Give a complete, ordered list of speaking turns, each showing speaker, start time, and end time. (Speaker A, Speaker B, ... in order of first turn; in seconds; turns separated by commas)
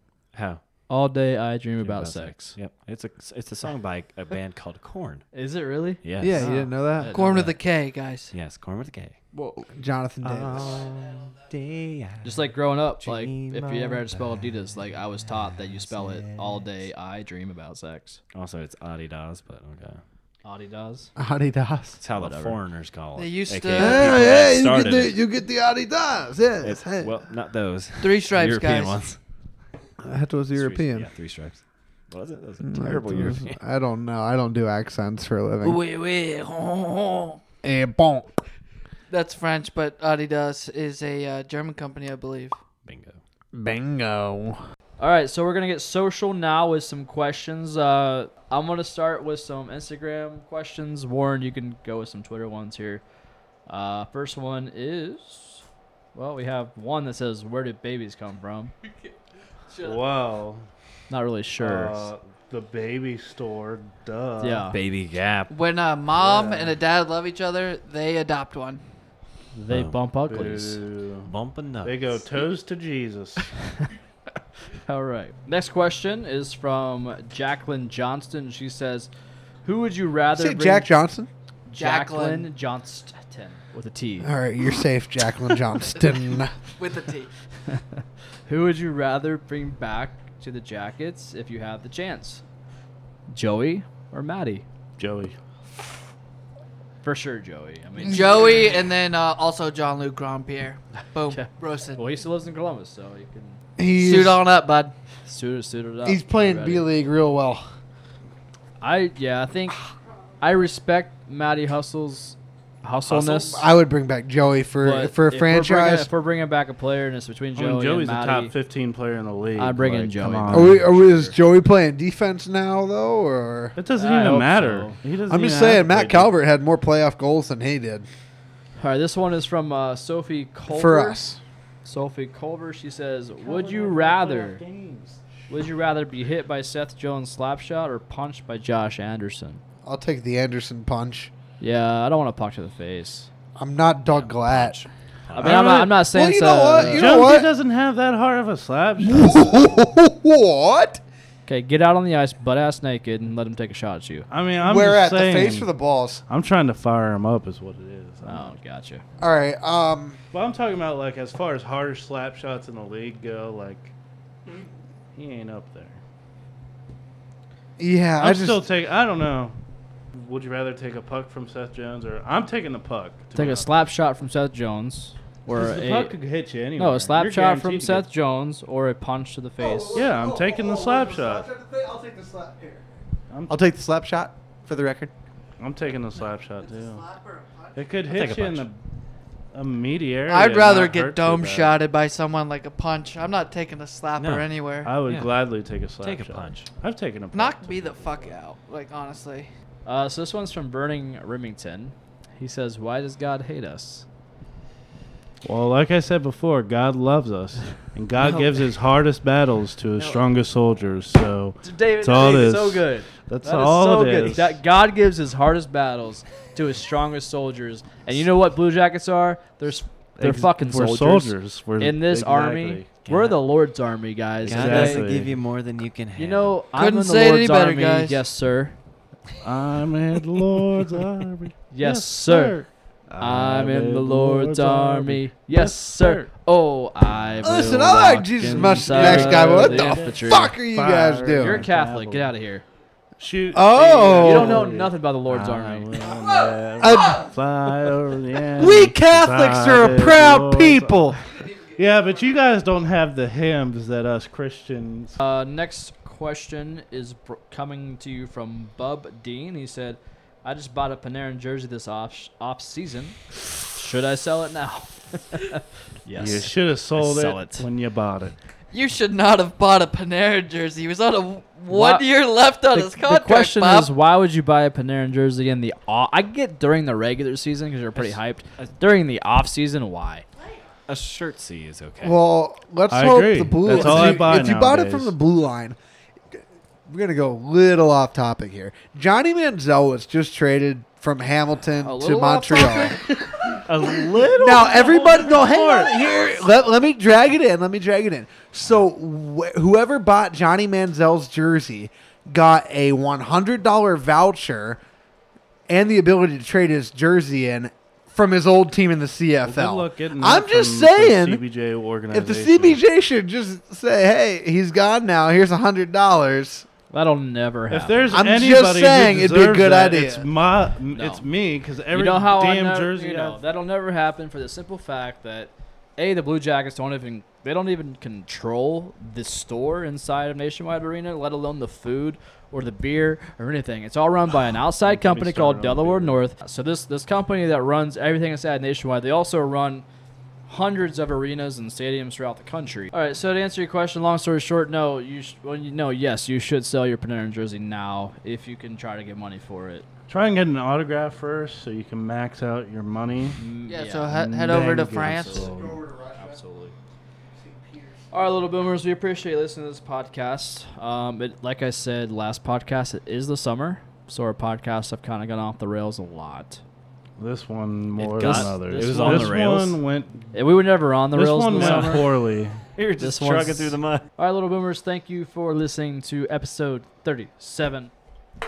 Speaker A: 0.3-0.6, Speaker B: 0.9-2.6, Speaker A: 1.8-5.3, Speaker B: 5.3-7.4, Speaker A: 6.0-6.5, Speaker C: 6.2-7.2, Speaker D: 7.1-8.3, Speaker A: 8.3-9.2, Speaker C: 9.6-10.8, Speaker A: 10.2-12.5, Speaker D: 10.9-11.3, Speaker B: 12.2-18.2, Speaker A: 13.0-14.5, Speaker A: 15.8-16.7, Speaker A: 18.3-20.0, Speaker B: 20.4-21.1, Speaker C: 21.2-22.0, Speaker A: 22.0-25.2, Speaker B: 22.1-22.6, Speaker D: 23.2-24.3, Speaker C: 23.8-27.2, Speaker A: 26.6-29.2, Speaker D: 28.0-29.0, Speaker C: 30.0-31.1, Speaker A: 30.6-33.6, Speaker C: 32.6-35.8, Speaker D: 35.6-37.4, Speaker C: 37.6-38.4, Speaker D: 39.1-42.6, Speaker A: 42.9-43.2, Speaker C: 43.5-44.6, Speaker B: 45.0-53.0, Speaker B: 53.7-55.6, Speaker B: 56.1-58.7, Speaker D: 59.7-60.0, Speaker E: 59.8-60.7, Speaker B: 61.1-62.1, Speaker E: 61.6-64.7, Speaker B: 64.4-64.8, Speaker A: 64.7-65.5, Speaker D: 65.5-68.8, Speaker E: 66.1-66.7, Speaker B: 69.5-70.8, Speaker A: 69.7-70.0, Speaker E: 70.3-71.3, Speaker A: 71.3-72.2, Speaker E: 71.8-73.5, Speaker B: 74.9-79.1, Speaker B: 79.7-80.9, Speaker C: 80.3-81.3, Speaker B: 81.7-84.3, Speaker D: 81.8-82.5, Speaker C: 84.2-86.5, Speaker D: 86.8-87.3, Speaker B: 87.7-92.4, Speaker B: 93.3-94.7, Speaker E: 95.0-95.3, Speaker B: 97.0-98.5, Speaker D: 98.0-102.1, Speaker B: 101.3-103.6, Speaker C: 103.8-104.5, Speaker D: 104.0-105.0, Speaker B: 105.3-106.9, Speaker C: 106.0-107.7, Speaker B: 108.8-109.8, Speaker B: 110.4-113.7, Speaker C: 113.1-116.1, Speaker B: 114.8-118.5, Speaker E: 117.6-121.1, Speaker B: 119.6-121.3, Speaker C: 120.5-123.8, Speaker E: 123.8-126.3, Speaker B: 124.0-125.0, Speaker C: 125.3-128.1, Speaker B: 128.8-131.2, Speaker C: 130.7-131.4, Speaker B: 131.8-134.6, Speaker E: 133.4-135.3, Speaker B: 135.5-139.6, Speaker C: 139.8-141.3, Speaker B: 141.6-143.3, Speaker C: 143.6-144.8, Speaker A: 144.2-145.6, Speaker B: 145.4-147.3, Speaker E: 145.4-145.9, Speaker C: 145.9-147.5, Speaker E: 146.8-149.8, Speaker C: 149.0-151.0, Speaker B: 151.5-154.3, Speaker E: 154.3-155.7, Speaker C: 154.6-156.2, Speaker E: 156.3-158.6, Speaker B: 158.2-159.0, Speaker C: 159.2-160.2, Speaker E: 160.3-163.9, Speaker E: 165.2-166.0, Speaker C: 167.8-168.6, Speaker E: 168.2-169.6, Speaker E: 170.1-173.7, Speaker B: 173.3-176.2, Speaker E: 175.5-178.1, Speaker B: 176.8-180.1, Speaker C: 179.6-182.9, Speaker E: 179.9-181.5, Speaker E: 183.3-183.6, Speaker C: 183.5-185.1, Speaker E: 185.6-187.1, Speaker D: 186.7-187.8, Speaker E: 187.8-188.8, Speaker A: 188.1-188.7, Speaker E: 189.5-191.8, Speaker D: 190.3-194.9, Speaker A: 194.2-194.5, Speaker E: 194.8-198.3, Speaker A: 195.1-195.4, Speaker A: 196.0-196.7, Speaker D: 197.3-199.5, Speaker B: 199.8-204.1, Speaker E: 205.4-214.6, Speaker B: 211.6-225.1, Speaker E: 220.2-222.9, Speaker A: 223.1-223.4, Speaker E: 224.4-225.4, Speaker A: 224.4-226.6, Speaker B: 226.2-228.8, Speaker D: 226.7-228.2, Speaker E: 229.4-236.3, Speaker B: 231.7-232.6, Speaker B: 233.2-240.6, Speaker C: 237.4-241.7, Speaker E: 238.5-242.3, Speaker B: 241.4-242.6, Speaker E: 243.2-255.2, Speaker C: 243.5-244.7, Speaker B: 244.1-245.9, Speaker C: 246.8-247.3, Speaker C: 248.6-251.2, Speaker B: 255.2-263.2, Speaker B: 263.7-267.7, Speaker E: 266.2-268.4, Speaker D: 268.7-273.9, Speaker B: 271.7-272.1, Speaker B: 272.7-280.2, Speaker A: 278.0-278.7, Speaker A: 280.9-282.2, Speaker C: 282.0-285.8, Speaker E: 282.9-285.1, Speaker B: 283.7-284.4, Speaker C: 286.4-293.0, Speaker B: 291.8-293.0, Speaker E: 293.1-296.0, Speaker C: 294.4-304.8, Speaker C: 305.7-311.4, Speaker E: 309.4-312.8, Speaker C: 312.1-316.7, Speaker B: 316.9-318.2, Speaker E: 317.7-323.4, Speaker C: 318.1-320.3, Speaker B: 320.9-321.2, Speaker B: 321.9-339.9, Speaker E: 334.8-336.2, Speaker B: 340.5-349.9, Speaker E: 350.1-353.4, Speaker B: 353.4-355.5, Speaker D: 353.7-355.5, Speaker E: 354.1-355.8, Speaker C: 355.3-356.4, Speaker B: 356.1-356.8, Speaker C: 357.4-358.1, Speaker B: 358.1-366.6, Speaker E: 367.2-370.3, Speaker A: 368.0-369.8, Speaker B: 368.1-369.5, Speaker B: 370.3-372.1, Speaker E: 371.1-372.6, Speaker A: 371.6-372.0, Speaker A: 372.8-374.1, Speaker B: 373.0-377.9